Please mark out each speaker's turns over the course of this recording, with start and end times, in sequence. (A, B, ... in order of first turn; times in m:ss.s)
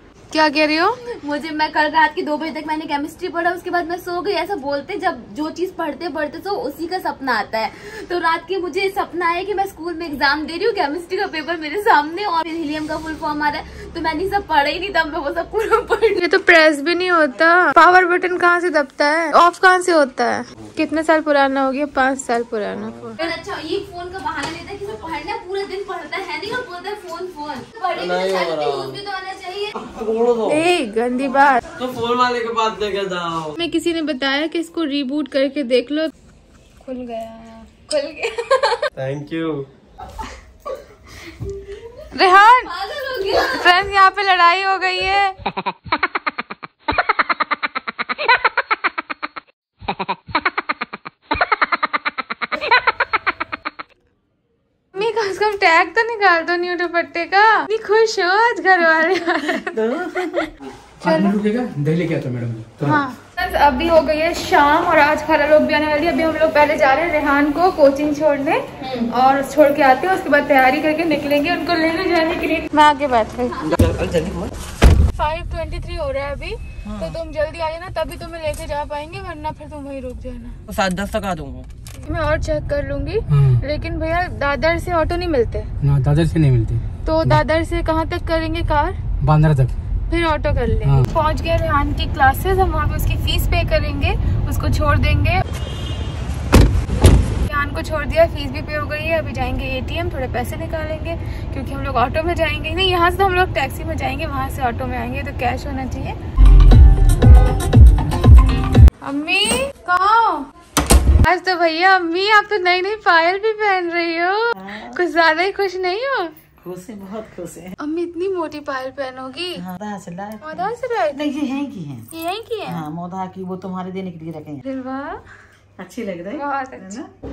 0:00.3-0:01.0 A
0:01.2-0:16.2 B
0:16.2-0:23.3 A
0:22.7-0:23.1 C
0:23.2-0:29.7 B
0:28.0-0:29.0 C
0:29.8-0:30.6 C
0:30.5-0:31.6 A
0:31.8-0:33.5 C
0:33.6-0:36.1 A
0:36.8-0:38.3 A
0:39.0-0:39.7 C
0:42.1-0:42.7 A
0:42.6-0:43.7 B
0:43.3-0:45.4 A
0:54.9-1:00.2 A
0:59.4-1:00.5 D
1:01.0-1:03.0 E
1:01.0-1:01.4 A
1:02.8-1:13.6 A
1:08.8-1:09.1 B
1:13.6-1:14.5 C
1:15.1-1:20.6 A
1:16.9-1:17.2 D
1:20.7-1:21.7 C
1:22.0-1:25.7 A
1:23.3-1:23.6 E
1:25.8-1:27.4 E
1:27.0-1:29.0 A
1:29.2-1:29.7 E
1:30.1-1:35.4 A
1:37.4-1:46.2 A
1:49.0-1:50.5 A
1:51.2-1:56.3 A
1:54.6-1:55.0 D
1:56.6-1:57.8 D
1:57.8-1:59.6 A
1:59.6-2:02.1 D
2:00.4-2:01.3 A
2:02.1-2:02.8 A
2:02.7-2:04.6 D
2:04.6-2:05.2 A
2:05.8-2:07.1 D
2:06.4-2:07.0 A